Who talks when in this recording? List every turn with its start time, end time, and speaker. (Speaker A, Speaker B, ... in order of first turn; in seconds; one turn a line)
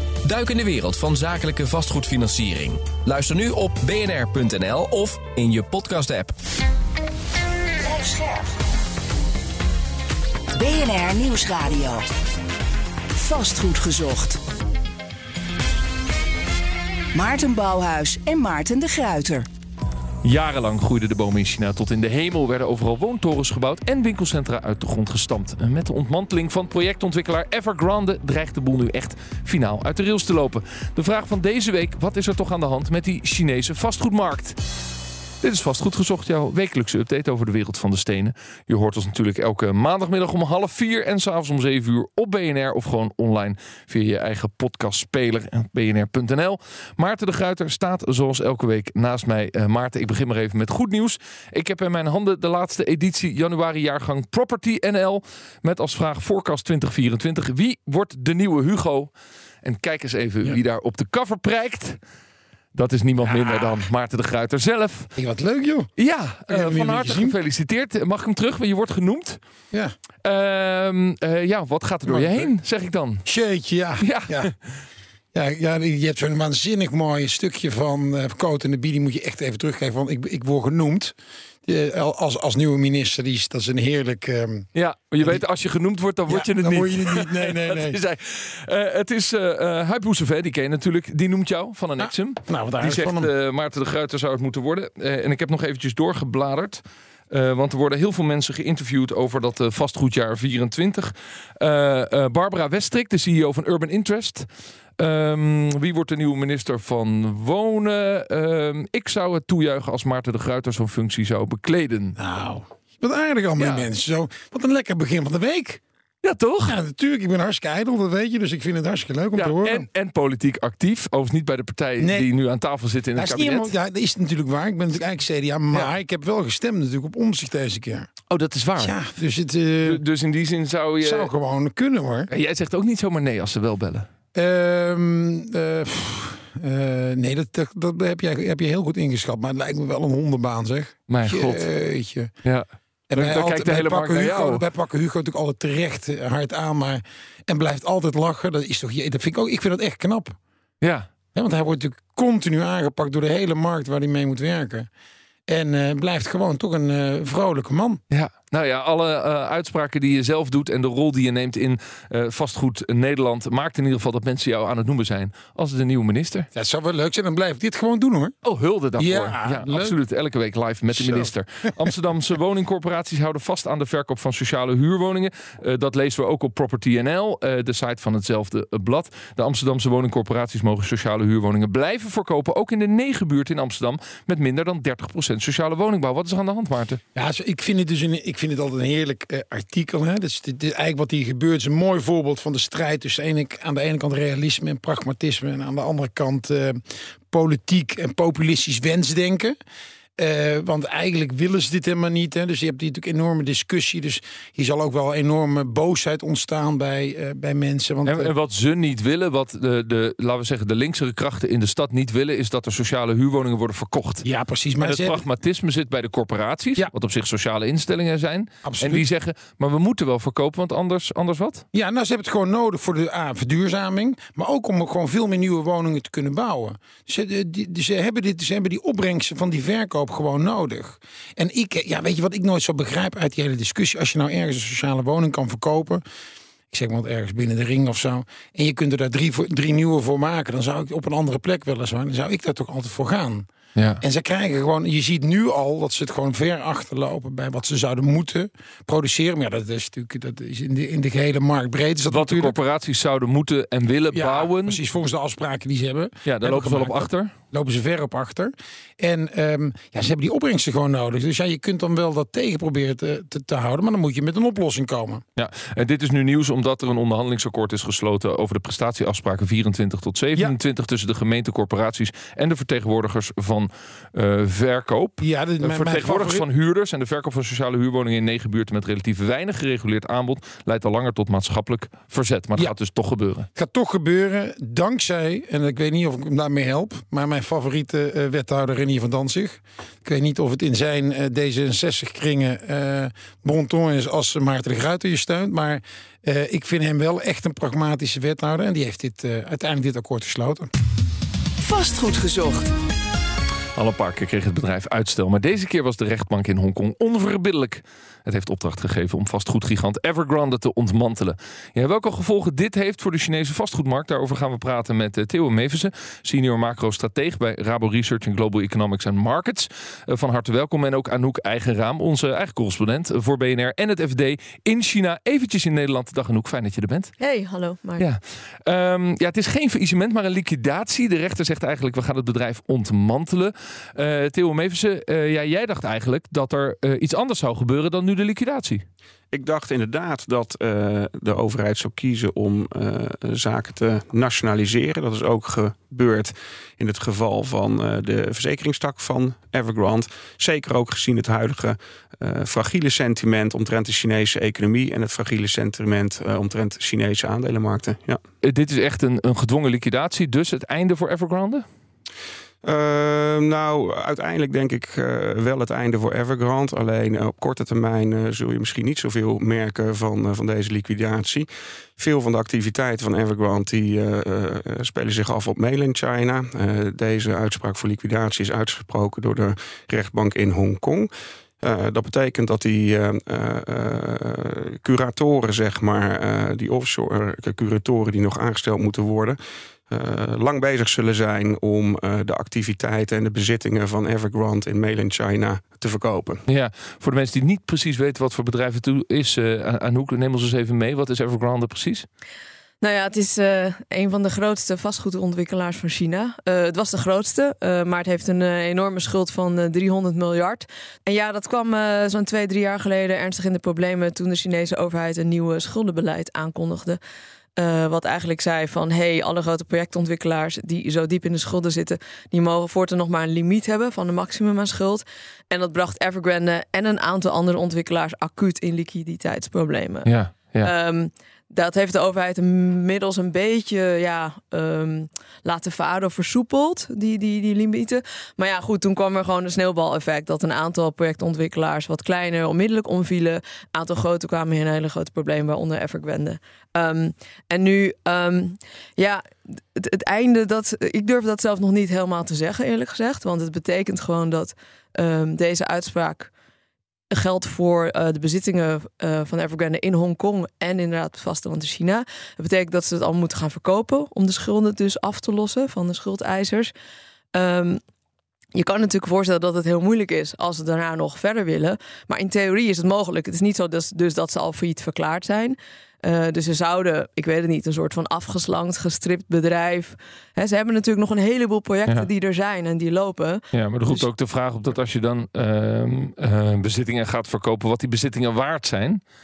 Speaker A: 0.2-6.3
Speaker B: 7.8-8.5
Speaker B: 10.5-12.0
Speaker B: 13.2-14.4
Speaker B: 17.1-19.4
Speaker C: 20.2-34.6
Speaker C: 35.4-62.0
Speaker C: 62.7-65.1
Speaker D: 63.2-63.8
Speaker D: 65.2-65.9
Speaker C: 66.0-69.4
Speaker D: 66.5-67.3
Speaker C: 70.2-73.2
Speaker D: 72.1-72.5
Speaker D: 73.2-74.5
Speaker C: 74.0-74.5
Speaker D: 75.3-81.1
Speaker D: 81.7-84.7
Speaker C: 84.8-104.5
Speaker D: 86.3-88.0
Speaker D: 92.0-93.3
Speaker C: 105.0-112.2
Speaker D: 112.2-115.8
Speaker C: 113.6-113.9
Speaker C: 116.2-116.8
Speaker D: 116.7-119.9
Speaker C: 119.4-123.7
Speaker D: 122.0-122.3
Speaker D: 123.2-128.1
Speaker C: 128.3-128.9
Speaker D: 128.8-130.0
Speaker C: 129.8-131.3
Speaker D: 131.0-132.3
Speaker C: 132.3-134.1
Speaker D: 134.3-142.3
Speaker C: 141.1-141.6
Speaker C: 142.4-144.6
Speaker D: 143.1-150.4
Speaker C: 150.8-151.1
Speaker D: 151.3-154.9
Speaker D: 155.5-158.0
Speaker C: 158.1-166.5
Speaker D: 166.5-168.3
Speaker C: 168.4-187.0
Speaker D: 169.0-170.0
Speaker D: 170.9-171.3
Speaker D: 187.2-199.6
Speaker D: 200.2-208.3
Speaker C: 208.1-214.2
Speaker D: 214.2-215.2
Speaker C: 214.8-221.6
Speaker D: 218.6-219.0
Speaker D: 221.7-236.0
Speaker D: 236.7-243.5
Speaker C: 243.8-244.0
Speaker D: 244.0-252.6
Speaker C: 252.1-254.8
Speaker D: 254.1-265.2
Speaker C: 256.2-257.3
Speaker C: 265.4-283.5
Speaker D: 275.2-276.4
Speaker D: 283.5-300.7
Speaker E: 301.7-302.5
Speaker B: 301.8-302.6
Speaker C: 303.7-327.1
Speaker E: 327.2-328.0
Speaker C: 328.0-338.8
Speaker F: 339.3-358.2
Speaker C: 358.4-361.6
Speaker F: 362.6-381.1
Speaker F: 381.6-389.4
Speaker F: 389.9-396.4
Speaker C: 396.5-402.1
Speaker E: 402.8-417.0
Speaker E: 417.6-456.3
Speaker C: 430.1-430.7
Speaker E: 457.1-466.7
Speaker E: 467.3-467.8
Speaker E: 468.5-484.1
Speaker C: 483.5-489.0